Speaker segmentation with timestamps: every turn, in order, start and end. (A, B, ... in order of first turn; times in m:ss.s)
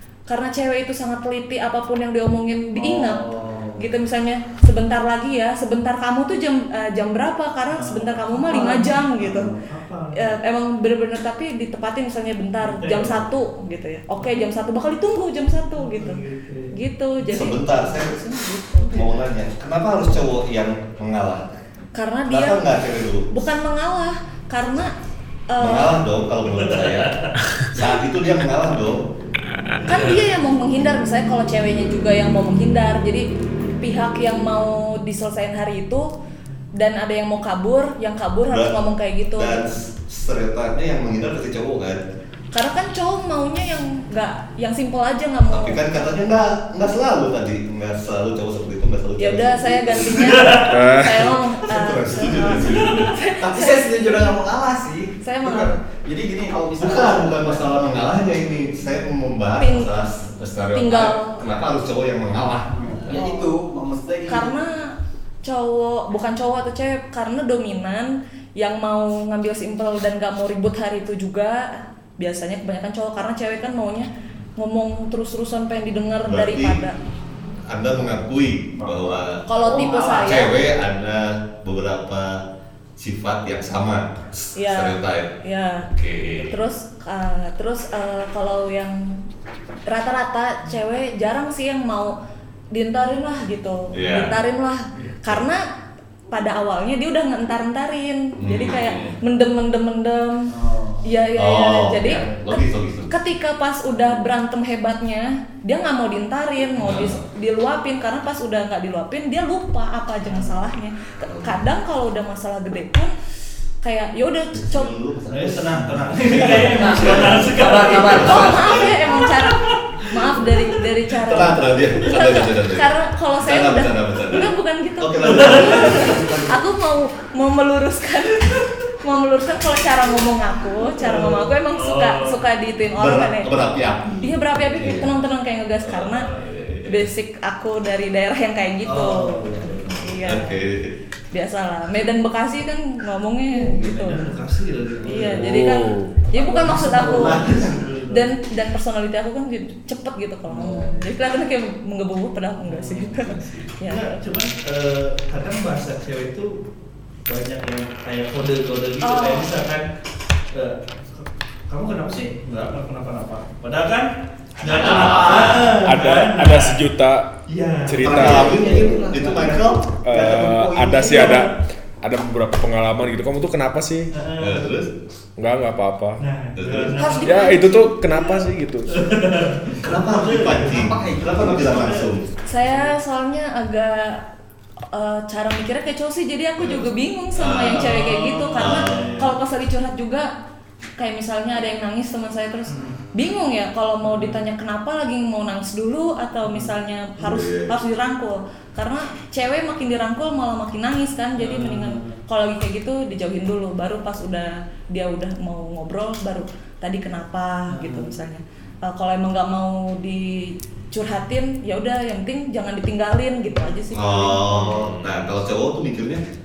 0:00.3-0:03.3 A
0:02.8-0:03.8 B
0:03.8-0:09.5 A
0:07.7-0:10.4 B
0:10.2-0:16.2 A
0:12.6-0:13.3 B
0:14.2-0:14.4 B
0:15.7-0:17.5 B
0:16.7-0:19.2 A
0:17.3-0:18.2 C
0:18.9-0:21.6 C
0:22.0-0:22.6 A
0:22.3-0:23.3 C
0:23.3-0:24.9 A
0:25.5-0:26.0 A
0:25.6-0:27.2 C
0:26.5-0:27.4 B
0:27.7-0:29.1 C
0:29.8-0:33.2 A
0:33.8-0:36.1 A
0:36.8-0:39.7 A
0:38.5-0:38.8 C
0:39.3-0:42.0 C
0:42.5-0:45.9 A
0:45.5-0:50.5 C
0:49.2-0:54.4 A
0:50.2-0:50.8 B
0:50.7-0:51.4 D
0:51.7-0:53.2 C
0:52.3-0:53.0 B
0:53.4-0:58.2 E
0:55.2-0:55.8 A
0:56.8-1:03.3 C
0:59.6-1:00.0 A
1:00.7-1:01.4 A
1:02.7-1:03.0 B
1:03.0-1:04.6 E
1:03.1-1:03.5 A
1:04.3-1:04.9 A
1:05.4-1:17.0 A
1:16.3-1:16.8 C
1:17.7-1:22.4 C
1:18.8-1:19.2 B
1:19.5-1:20.5 A
1:23.0-1:25.3 C
1:24.6-1:25.9 A
1:25.9-1:26.6 C
1:26.5-1:29.0 A
1:29.9-1:32.1 A
1:32.7-1:35.6 A
1:33.9-1:34.4 C
1:36.3-1:40.4 A
1:38.4-1:39.2 C
1:40.5-1:41.0 E
1:41.0-1:53.1 A
1:41.4-1:43.2 C
1:46.8-1:47.2 C
1:51.3-1:51.6 C
1:53.8-1:54.9 A
1:54.5-1:59.3 C
1:55.3-1:59.8 B
1:56.6-1:57.0 A
1:57.9-2:13.5 A
2:01.1-2:06.6 C
2:05.2-2:06.3 B
2:11.0-2:12.4 B
2:13.0-2:15.1 C
2:14.2-2:16.3 A
2:15.8-2:17.1 C
2:16.8-2:20.6 A
2:18.9-2:19.9 B
2:19.8-2:21.0 C
2:21.3-2:24.2 A
2:23.6-2:25.6 B
2:25.0-2:27.5 A
2:25.3-2:26.3 D
2:26.3-2:28.3 B
2:27.1-2:27.6 C
2:27.2-2:27.6 E
2:28.1-2:34.2 A
2:30.5-2:31.1 B
2:32.6-2:36.6 B
2:37.3-2:39.9 B
2:39.0-2:39.6 A
2:40.5-2:46.8 B
2:44.6-2:45.8 E
2:44.6-2:45.8 C
2:45.8-2:47.3 D
2:47.5-2:49.6 B
2:47.9-2:48.6 D
2:48.0-2:49.9 C
2:48.2-2:51.5 E
2:50.0-2:54.1 D
2:54.1-2:54.8 B
2:54.4-2:54.9 C
2:55.4-2:56.2 D
2:56.2-2:57.5 B
2:56.6-2:57.1 C
2:57.0-2:58.4 A
2:57.2-2:59.0 D
2:58.9-3:00.9 B
2:59.8-3:02.3 C
2:59.8-3:02.0 E
3:01.7-3:02.0 B
3:02.5-3:04.2 A
3:02.6-3:02.9 B
3:04.9-3:10.3 A
3:06.6-3:09.3 C
3:07.8-3:09.3 B
3:11.0-3:34.8 A
3:12.7-3:13.0 B
3:14.0-3:14.4 B
3:16.5-3:17.4 B
3:17.3-3:17.7 C
3:21.4-3:22.2 B
3:27.7-3:28.1 B
3:33.9-3:36.2 C
3:34.6-3:35.1 D